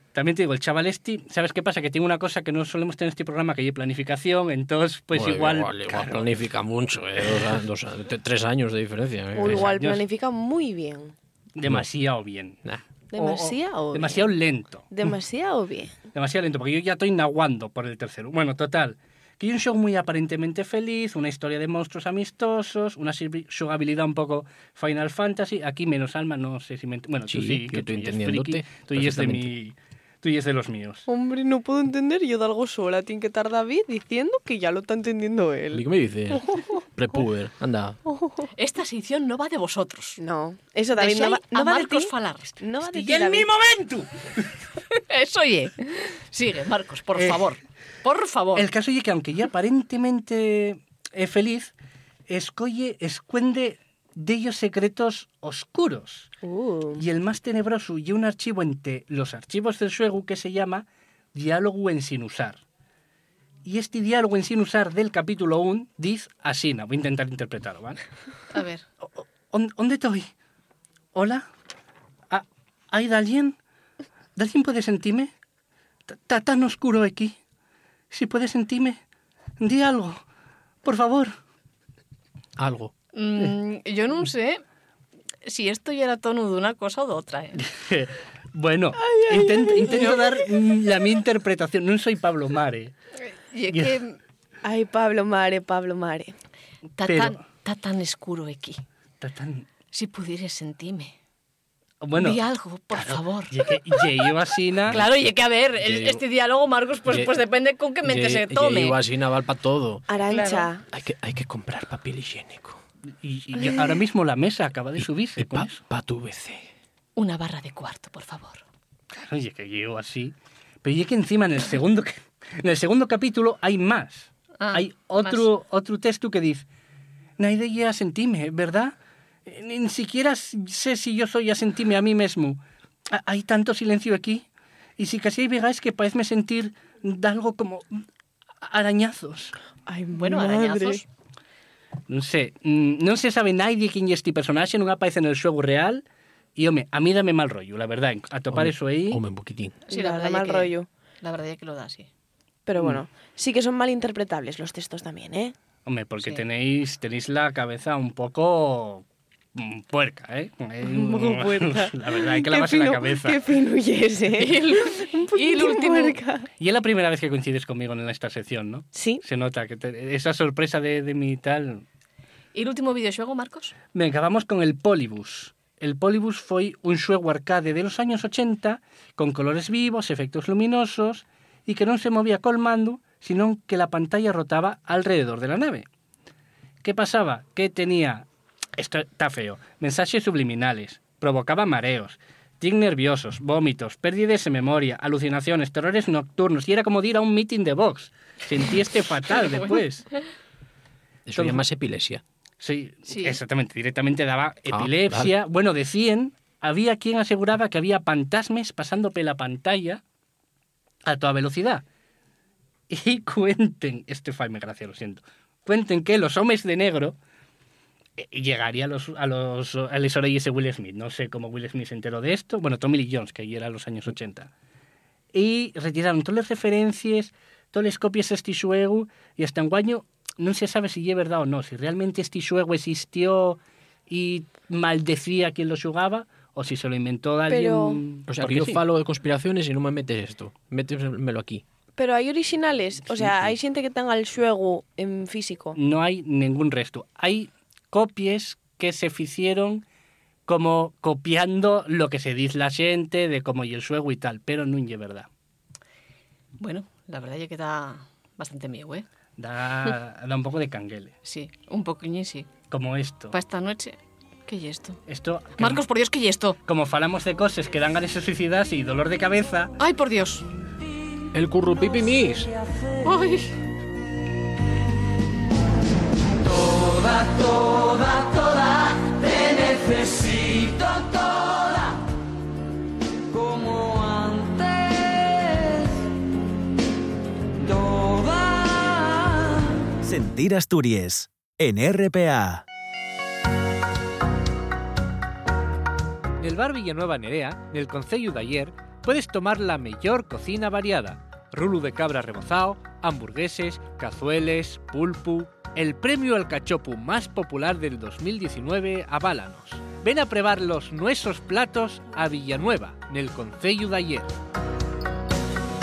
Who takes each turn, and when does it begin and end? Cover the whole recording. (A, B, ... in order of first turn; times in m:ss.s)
0:00.1-0:06.3 A
0:05.1-0:09.7 B
0:09.3-0:11.1 C
0:09.4-0:10.0 A
0:11.6-0:12.6 A
0:13.1-0:14.3 C
0:13.1-0:14.8 A
0:14.9-0:15.9 C
0:16.1-0:31.1 A
0:27.3-0:29.5 B
0:31.1-0:36.7 C
0:35.7-0:38.0 B
0:38.0-0:38.5 C
0:38.6-0:40.2 D
0:40.2-0:43.5 C
0:41.0-0:42.6 D
0:42.9-0:44.5 A
0:44.9-0:48.7 D
0:47.2-0:47.4 A
0:48.5-0:51.7 A
0:52.3-0:56.3 A
0:56.4-0:57.0 C
0:57.0-1:02.6 A
1:03.6-1:08.0 A
1:08.5-1:08.8 D
1:09.1-1:10.3 A
1:11.1-1:11.4 A
1:12.3-1:13.6 A
1:14.4-1:15.3 A
1:16.1-1:17.4 A
1:18.1-1:19.0 A
1:19.6-1:20.2 A
1:20.8-1:21.3 A
1:22.6-1:22.9 B
1:23.1-1:24.6 D
1:25.4-1:27.6 D
1:27.6-1:32.9 A
1:29.0-1:30.8 C
1:33.2-1:34.2 D
1:33.7-1:34.0 A
1:34.6-1:36.3 C
1:37.0-1:38.8 D
1:37.0-1:37.4 A
1:39.2-1:39.6 A
1:39.9-1:41.1 D
1:42.0-1:42.4 A
1:42.2-1:44.2 D
1:42.9-1:45.0 A
1:44.9-1:49.0 D
1:44.9-1:46.2 B
1:47.1-1:47.3 B
1:48.0-1:50.0 B
1:50.1-1:50.8 C
1:50.3-1:50.6 A
1:50.9-1:52.8 B
1:53.2-1:55.8 A
1:55.4-1:56.7 B
1:57.2-1:58.6 D
1:59.1-2:06.6 A
2:04.6-2:05.5 D
2:07.4-2:08.9 A
2:09.4-2:14.4 A
2:15.0-2:17.9 A
2:18.6-2:19.6 A
2:19.8-2:21.0 C
2:20.1-2:21.0 D
2:22.1-2:26.0 A
2:26.6-2:29.2 A
2:28.5-2:29.8 B
2:29.9-2:32.1 D
2:29.9-2:30.9 C
2:32.6-2:35.5 C
2:32.8-2:33.0 A
2:35.8-2:43.4 A
2:40.8-2:46.5 C
2:44.4-2:46.2 D
2:46.6-2:51.8 A
2:48.9-2:49.2 C
2:52.5-2:53.7 D
2:53.9-3:05.9 A
3:06.8-3:20.1 A
3:21.3-3:22.2 B
3:21.4-3:21.6 A
3:22.6-3:30.0 A
3:23.1-3:23.4 D
3:24.7-3:25.3 B
3:31.0-3:31.8 A
3:32.9-3:37.2 A
3:38.2-3:44.5 A
3:45.3-3:58.8 A
3:57.5-3:58.0 C
3:58.3-4:01.6 B
4:02.0-4:05.8 C
4:05.7-4:09.8 A
4:10.5-4:15.3 A
4:16.6-4:19.0 D
4:19.4-4:21.1 A
4:21.2-4:22.5 D
4:22.7-4:23.4 A
4:23.3-4:25.0 D
4:25.1-4:25.8 A
4:25.6-4:26.6 D
4:26.6-4:29.7 A
4:29.8-4:30.5 D
4:31.3-4:32.5 B
4:33.0-4:33.5 D
4:50.0-4:52.6 E
4:56.4-5:14.3 A